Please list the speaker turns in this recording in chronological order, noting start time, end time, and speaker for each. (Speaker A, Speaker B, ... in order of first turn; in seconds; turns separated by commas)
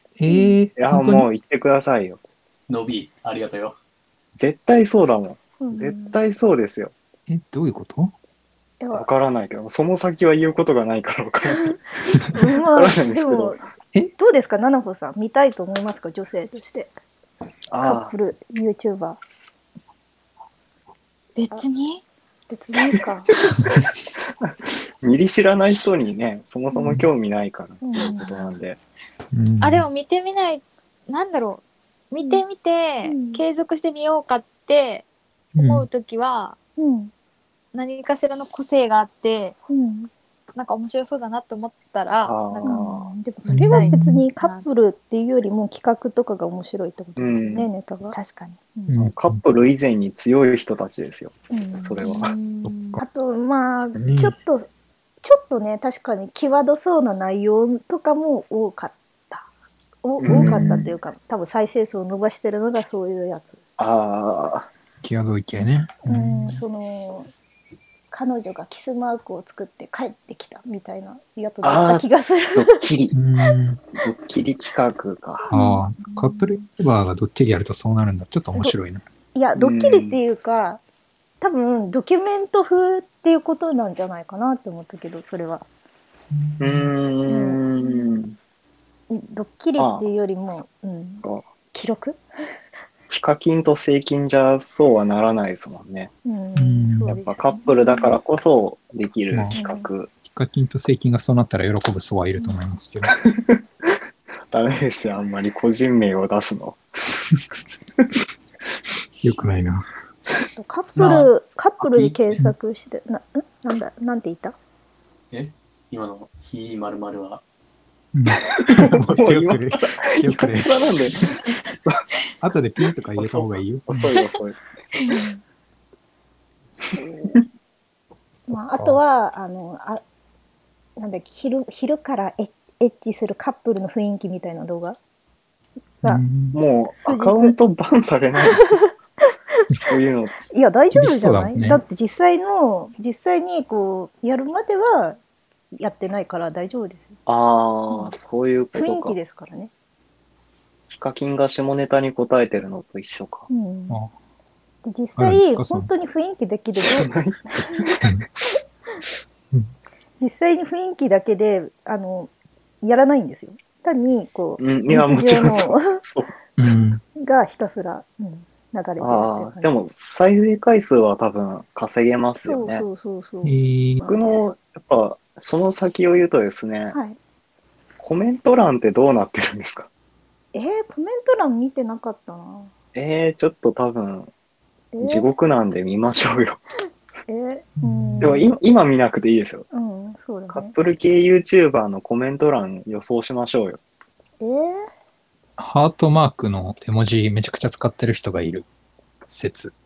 Speaker A: 0.2-1.2, Speaker B: 0.3-0.6, Speaker C: 0.8-2.2, Speaker D: 2.7-3.8, Speaker C: 4.4-6.9, Speaker B: 5.6-6.2, Speaker A: 7.3-8.1, Speaker B: 8.8-9.1, Speaker C: 8.9-11.8, Speaker B: 12.3-13.6, Speaker C: 12.7-13.6, Speaker B: 14.2-16.9, Speaker C: 17.7-18.1, Speaker B: 17.8-19.2, Speaker E: 21.4-22.0, Speaker B: 22.5-23.3, Speaker C: 24.4-28.8, Speaker B: 26.7-27.0, Speaker B: 27.8-28.5, Speaker A: 29.3-29.9, Speaker E: 29.6-36.6, Speaker B: 33.0-33.4, Speaker A: 35.6-35.9, Speaker B: 36.8-37.1, Speaker E: 37.7-39.6, Speaker B: 39.7-40.1, Speaker E: 40.5-43.0, Speaker C: 42.2-43.1, Speaker B: 42.7-48.1, Speaker A: 43.5-44.2, Speaker E: 43.7-44.7, Speaker C: 47.2-47.7, Speaker E: 48.1-48.6, Speaker A: 48.9-49.4, Speaker C: 48.9-52.4, Speaker B: 51.5-52.0, Speaker E: 52.0-53.0, Speaker A: 52.6-53.0, Speaker B: 53.0-54.7, Speaker A: 54.0-54.4, Speaker B: 55.2-59.5, Speaker B: 60.0-63.6, Speaker C: 60.2-61.0, Speaker A: 60.3-60.8, Speaker C: 63.8-64.7, Speaker A: 65.0-66.6, Speaker B: 66.0-67.3, Speaker B: 68.1-72.8, Speaker C: 71.6-73.1, Speaker A: 73.1-73.8, Speaker C: 74.0-75.5, Speaker B: 75.5-76.6, Speaker A: 75.5-79.0, Speaker B: 79.3-80.8, Speaker C: 79.5-80.2, Speaker B: 81.4-85.7, Speaker A: 86.3-86.9, Speaker C: 86.6-88.3, Speaker B: 87.3-88.2, Speaker B: 89.1-92.2, Speaker C: 89.8-90.0, Speaker C: 93.1-96.1, Speaker B: 96.2-98.1, Speaker A: 96.6-97.2, Speaker C: 97.1-100.1, Speaker B: 99.5-99.9, Speaker A: 100.2-103.1, Speaker B: 102.4-102.7, Speaker C: 103.2-103.9, Speaker C: 104.5-106.8, Speaker A: 109.2-109.9, Speaker B: 110.5-114.5, Speaker D: 111.0-112.4, Speaker D: 115.3-117.4, Speaker A: 118.1-121.4, Speaker C: 118.5-121.3, Speaker A: 122.4-124.1, Speaker C: 123.2-124.6, Speaker B: 125.0-125.4, Speaker A: 128.5-129.0, Speaker B: 128.5-130.0, Speaker B: 131.0-135.0, Speaker A: 136.0-136.6, Speaker C: 136.5-138.8, Speaker B: 136.9-137.6, Speaker C: 139.8-140.4, Speaker B: 140.5-145.2, Speaker A: 140.9-141.8, Speaker B: 145.8-147.2, Speaker C: 147.3-149.2, Speaker B: 147.9-148.2, Speaker B: 148.8-149.7, Speaker C: 150.9-153.5, Speaker B: 153.5-154.0, Speaker B: 154.8-157.9, Speaker A: 155.2-155.9, Speaker C: 156.8-158.0, Speaker B: 160.2-162.3, Speaker B: 162.8-166.0, Speaker C: 164.6-166.3, Speaker A: 166.6-167.0, Speaker B: 167.2-169.7, Speaker C: 169.0-172.9, Speaker B: 172.4-174.4, Speaker A: 173.4-174.0, Speaker C: 174.0-177.0, Speaker B: 176.9-177.2, Speaker C: 178.0-179.9, Speaker B: 180.5-182.7, Speaker C: 182.9-184.3, Speaker B: 184.9-185.3, Speaker C: 185.0-186.6, Speaker B: 187.3-188.5, Speaker A: 187.8-188.5, Speaker C: 188.2-189.7, Speaker B: 189.7-190.7, Speaker C: 190.5-193.8, Speaker B: 194.4-194.8, Speaker A: 195.6-198.7, Speaker A: 199.3-199.7